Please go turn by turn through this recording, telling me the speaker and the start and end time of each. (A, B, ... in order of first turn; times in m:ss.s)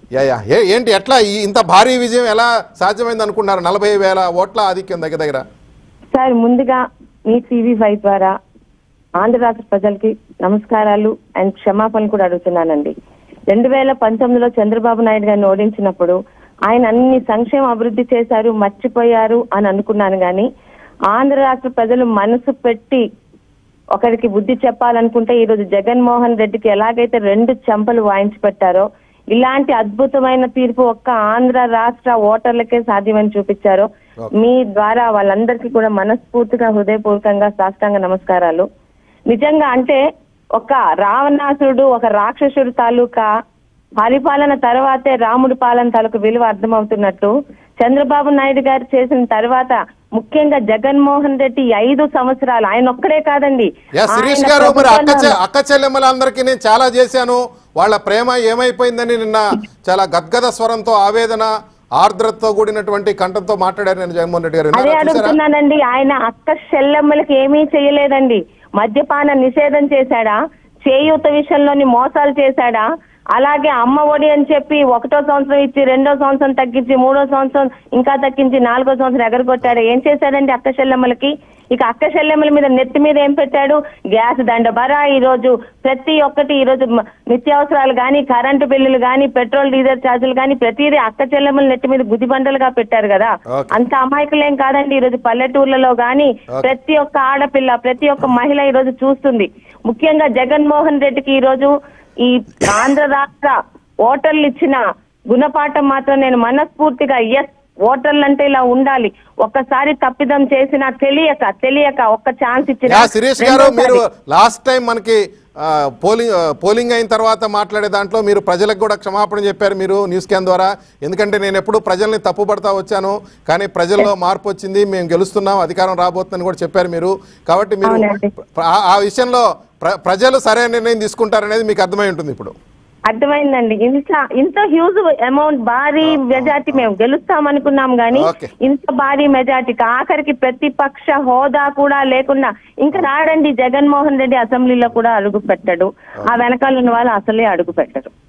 0:00.1-0:05.4 A
0:06.1-0:08.3 B
0:09.2-0:12.9 B
0:13.5-0:16.1 B
0:16.7-0:20.4 B
0:21.1-0:23.0 B
0:24.0-0:38.6 B
0:39.3-0:40.0 B
0:40.6-0:43.3 B
0:44.0-0:55.4 B
0:54.0-1:05.4 A
1:04.7-1:41.7 B
1:42.2-1:44.8 B
1:45.3-1:54.0 B
1:52.9-2:12.5 A
2:07.8-2:08.3 B
2:13.1-2:28.1 B
2:16.0-2:16.6 A
2:18.1-2:18.5 A